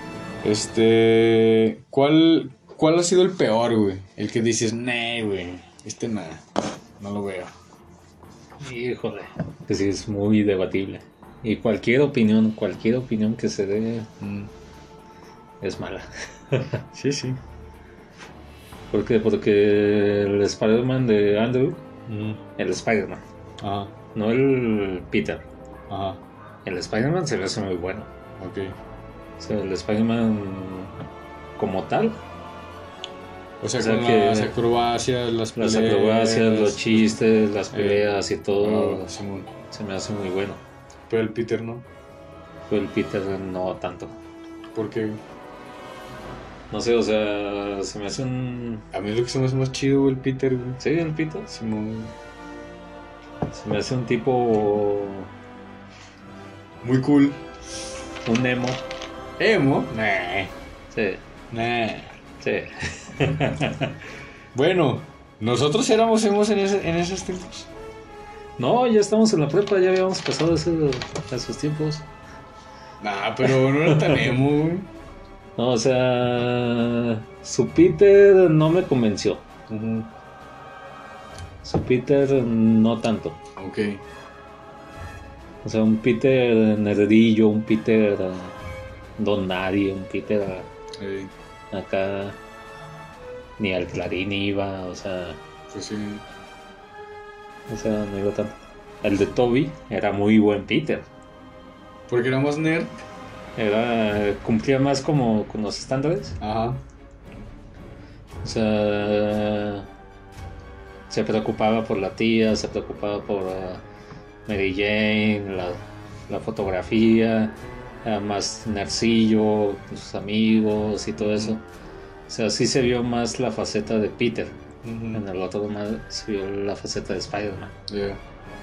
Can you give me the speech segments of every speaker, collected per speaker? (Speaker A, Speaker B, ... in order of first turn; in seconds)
Speaker A: 0.4-7.5, 14.2-14.5, 16.9-17.4, 22.1-22.4, 23.6-23.9, 25.9-26.2, 28.4-28.7, 33.6-37.1, 37.7-38.1, 38.6-39.5, 41.1-41.9, 44.7-45.2, 48.9-50.8, 51.5-52.1, 56.8-57.4, 59.4-60.5, 61.5-62.2, 64.5-67.7, 73.0-74.9, 79.7-80.1, 83.6-84.0, 91.0-91.3, 95.7-96.2, 102.1-102.9, 106.4-106.8, 121.3-121.5, 124.8-125.2, 127.9-128.2
Speaker B: 8.6-14.1, 15.6-16.8, 18.9-21.8, 22.6-23.2, 24.1-25.4, 26.6-28.1, 29.4-30.9, 31.6-32.2, 33.8-34.5, 35.6-39.1, 39.7-40.6, 42.7-44.2, 46.7-48.9, 50.8-51.5, 53.5-55.3, 58.3-58.8, 60.9-61.2, 62.4-63.9, 68.6-72.0, 73.4-74.4, 75.6-79.5, 81.6-83.4, 85.6-88.6, 89.2-90.7, 91.7-92.4, 93.6-95.4, 97.7-101.1, 103.6-106.4, 108.4-109.9, 111.1-113.8, 114.5-115.8, 116.3-121.6, 122.3-124.6, 125.1-127.7